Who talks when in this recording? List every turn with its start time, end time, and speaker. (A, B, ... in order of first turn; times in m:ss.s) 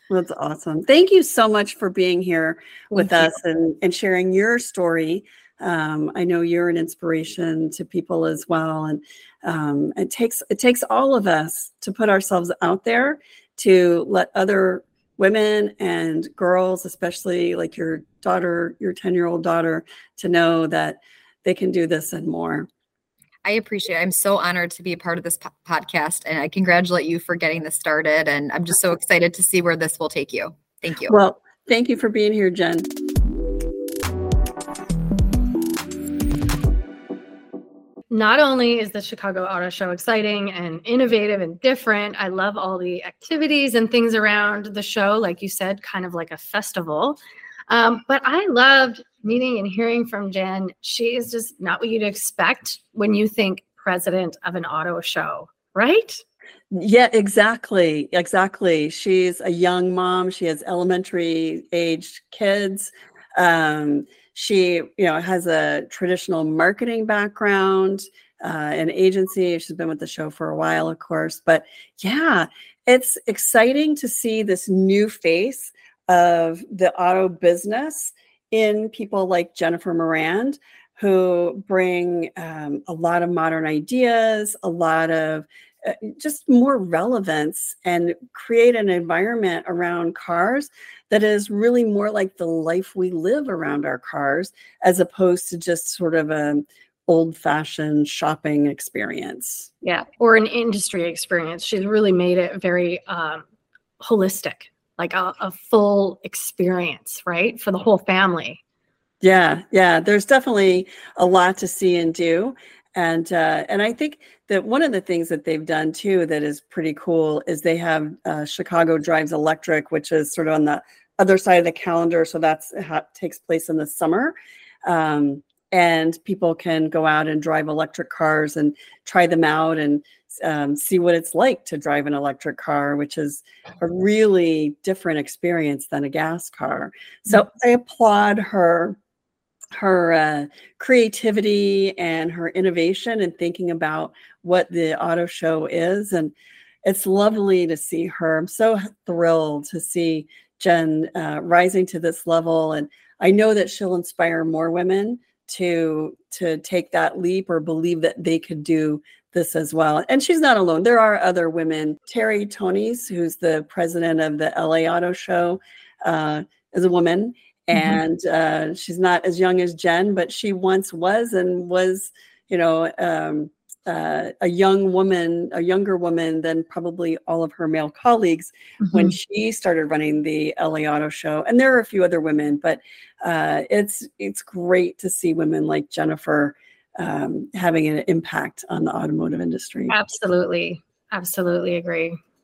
0:00.1-0:22.7 A
0:23.4-0:31.1 B
0:31.1-0:32.9 A
0:38.1-0:47.2 C
0:47.7-0:56.2 C
0:56.7-1:39.7 A
1:39.8-1:43.4 C
1:44.0-1:48.6 C
1:49.2-2:04.3 A
2:04.8-2:19.0 A
2:19.8-2:26.3 A
2:26.8-3:10.0 A
2:47.7-2:48.0 C
2:58.8-2:59.1 C
3:09.9-3:12.2 C